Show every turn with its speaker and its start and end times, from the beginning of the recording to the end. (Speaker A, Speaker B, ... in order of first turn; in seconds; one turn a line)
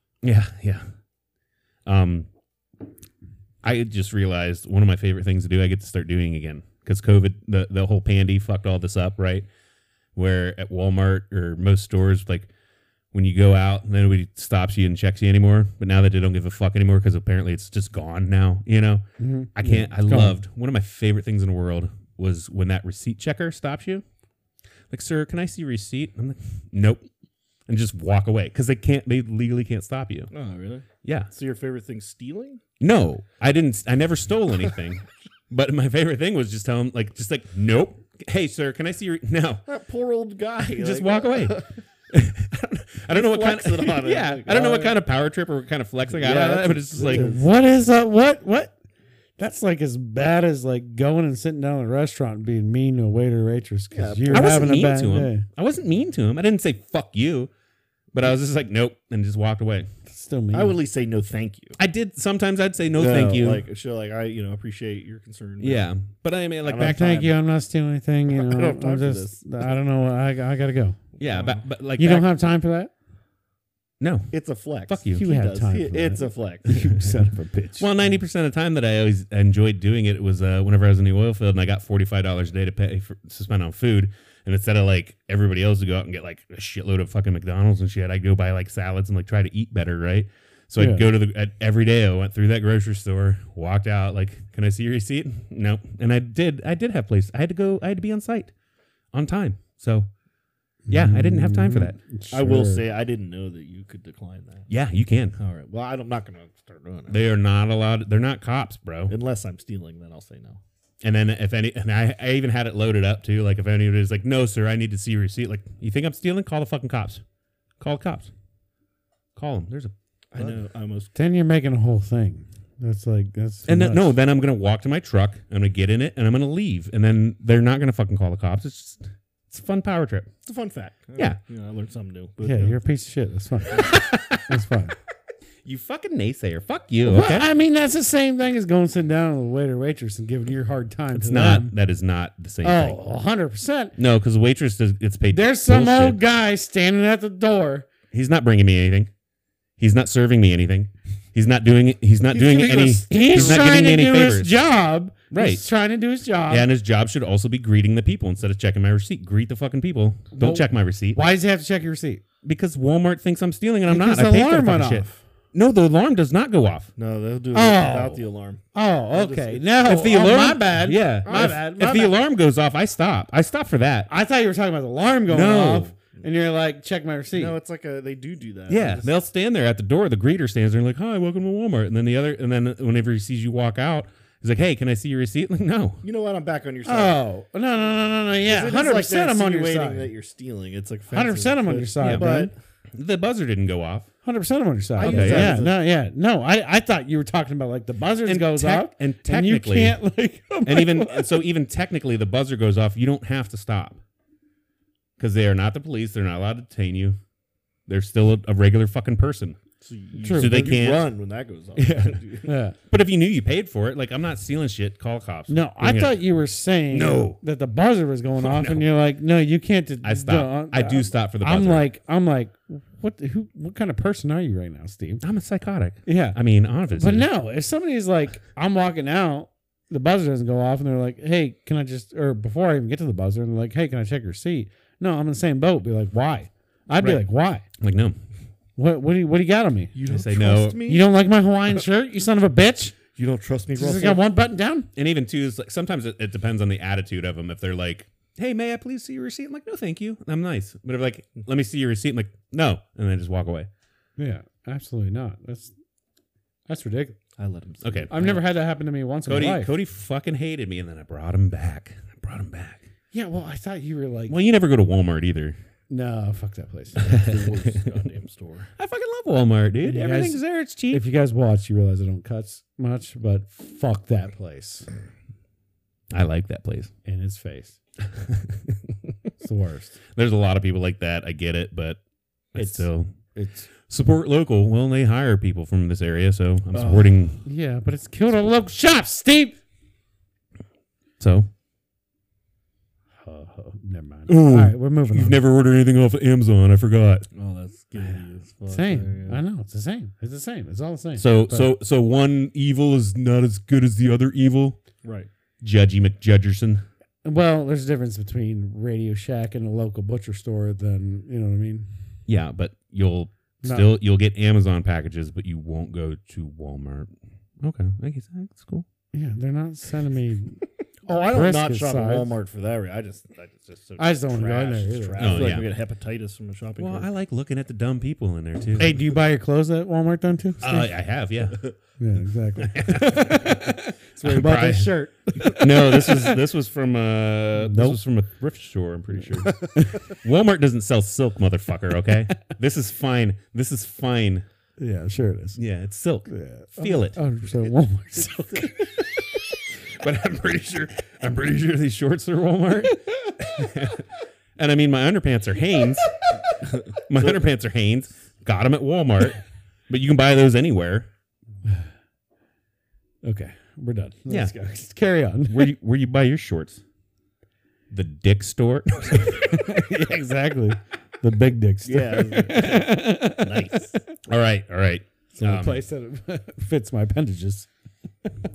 Speaker A: 0.2-0.9
Speaker A: 1.9-2.3
Speaker A: 3.6-9.5
Speaker A: 10.2-12.5
Speaker A: 13.1-19.0
Speaker B: 19.2-20.4
Speaker A: 19.6-24.0
Speaker A: 24.9-27.1
Speaker A: 27.7-30.3
Speaker C: 30.3-32.6
Speaker A: 31.0-31.3
Speaker A: 32.8-39.6
Speaker C: 39.7-41.8
Speaker A: 40.7-41.6
Speaker A: 42.1-47.4
Speaker C: 43.1-45.0
Speaker C: 46.1-47.4
Speaker B: 47.0-48.8
Speaker B: 49.4-55.5
Speaker C: 53.9-54.5
Speaker A: 54.3-57.5
Speaker A: 58.1-59.9
Speaker B: 60.1-60.8
Speaker C: 60.5-61.8
Speaker A: 61.8-63.6
Speaker C: 63.0-65.9
Speaker A: 65.6-67.3
Speaker B: 66.7-71.0
Speaker C: 68.3-69.4
Speaker C: 71.2-71.7
Speaker A: 71.2-72.3
Speaker B: 72.0-72.9
Speaker A: 74.0-74.3
Speaker C: 74.3-76.8
Speaker A: 74.9-75.2
Speaker B: 75.1-77.9
Speaker A: 77.8-98.5
Speaker B: 90.8-91.1
Speaker A: 99.1-100.1
Speaker B: 100.9-102.8
Speaker A: 100.9-102.0
Speaker C: 102.3-104.7
Speaker A: 104.7-105.4
Speaker C: 105.4-107.2
Speaker A: 107.1-109.1
Speaker C: 109.1-110.6
Speaker A: 111.0-117.2
Speaker A: 117.8-118.3
Speaker A: 119.4-120.6
Speaker C: 120.3-121.1
Speaker B: 121.2-124.2
Speaker A: 123.7-130.3
Speaker C: 130.5-132.8
Speaker B: 132.4-134.9
Speaker A: 133.8-134.5
Speaker A: 135.6-137.5
Speaker B: 137.0-141.7
Speaker A: 141.1-143.0
Speaker B: 142.6-144.0
Speaker A: 144.0-146.2
Speaker B: 145.3-147.9
Speaker A: 148.1-149.1
Speaker A: 149.8-154.5
Speaker B: 152.4-156.7
Speaker C: 152.4-153.6
Speaker A: 155.3-155.6
Speaker A: 156.5-161.2
Speaker B: 160.3-162.2
Speaker A: 162.4-166.9
Speaker B: 163.9-165.2
Speaker C: 167.0-169.7
Speaker B: 167.5-168.2
Speaker B: 168.7-172.2
Speaker A: 169.8-174.1
Speaker C: 171.3-171.6
Speaker B: 174.1-177.6
Speaker A: 175.3-175.9
Speaker C: 177.3-179.1
Speaker A: 178.7-186.0
Speaker C: 186.0-187.2
Speaker B: 186.8-190.1
Speaker C: 188.4-192.5
Speaker B: 191.1-192.5
Speaker A: 192.0-192.3
Speaker A: 192.9-194.1
Speaker B: 194.2-201.4
Speaker C: 195.0-195.8
Speaker A: 195.0-195.6
Speaker A: 198.2-200.0
Speaker A: 200.7-204.0
Speaker A: 205.2-207.2
Speaker A: 207.9-209.6
Speaker C: 209.8-212.5
Speaker B: 210.2-210.6
Speaker A: 210.3-211.1
Speaker A: 211.8-212.2
Speaker B: 212.4-212.8
Speaker A: 212.9-216.2
Speaker B: 215.5-225.2
Speaker A: 216.9-217.4
Speaker A: 218.4-218.9
Speaker A: 220.0-221.8
Speaker A: 225.2-227.3
Speaker B: 226.1-226.4
Speaker B: 226.9-237.7
Speaker A: 237.8-238.2
Speaker B: 238.8-239.9
Speaker C: 239.9-241.1
Speaker A: 240.1-240.8
Speaker B: 240.9-243.0
Speaker C: 243.2-244.2
Speaker B: 243.8-244.9
Speaker A: 245.0-253.7
Speaker B: 254.2-255.7
Speaker B: 256.7-257.2
Speaker C: 257.4-258.4
Speaker A: 257.8-258.3
Speaker B: 258.1-259.7
Speaker A: 259.3-262.9
Speaker B: 263.1-264.4
Speaker A: 264.3-265.6
Speaker B: 265.9-267.1
Speaker C: 267.0-268.7
Speaker A: 267.0-267.9
Speaker A: 268.8-271.1
Speaker B: 269.8-274.9
Speaker A: 276.1-276.9
Speaker B: 277.1-277.8
Speaker A: 278.1-279.1
Speaker B: 279.4-280.0
Speaker A: 280.1-282.0
Speaker A: 282.5-283.1
Speaker B: 282.6-283.7
Speaker A: 283.8-287.4
Speaker C: 286.8-287.2
Speaker B: 287.4-289.6
Speaker A: 291.2-291.5
Speaker B: 293.2-295.4
Speaker A: 294.3-297.3
Speaker C: 297.3-299.4
Speaker B: 298.7-301.7
Speaker A: 301.2-304.8
Speaker C: 305.0-305.3
Speaker A: 305.6-306.8
Speaker B: 307.2-311.9
Speaker A: 312.3-318.9
Speaker B: 313.6-313.9
Speaker B: 319.1-322.4
Speaker C: 321.3-327.1
Speaker B: 324.0-325.5
Speaker A: 325.2-325.7
Speaker A: 326.8-329.0
Speaker B: 328.8-330.9
Speaker A: 330.6-331.6
Speaker B: 332.0-336.4
Speaker A: 332.6-344.4
Speaker B: 337.6-338.0
Speaker B: 339.5-340.1
Speaker B: 344.8-345.6
Speaker A: 345.6-347.2
Speaker B: 346.3-349.1
Speaker C: 348.2-348.7
Speaker A: 349.9-356.4
Speaker B: 353.1-353.4
Speaker C: 356.6-357.4
Speaker A: 356.9-361.1
Speaker B: 363.2-365.7
Speaker A: 364.3-364.5
Speaker A: 365.5-366.8
Speaker A: 367.9-369.7
Speaker B: 369.3-373.9
Speaker C: 371.9-373.9
Speaker A: 374.2-375.8
Speaker B: 375.3-377.7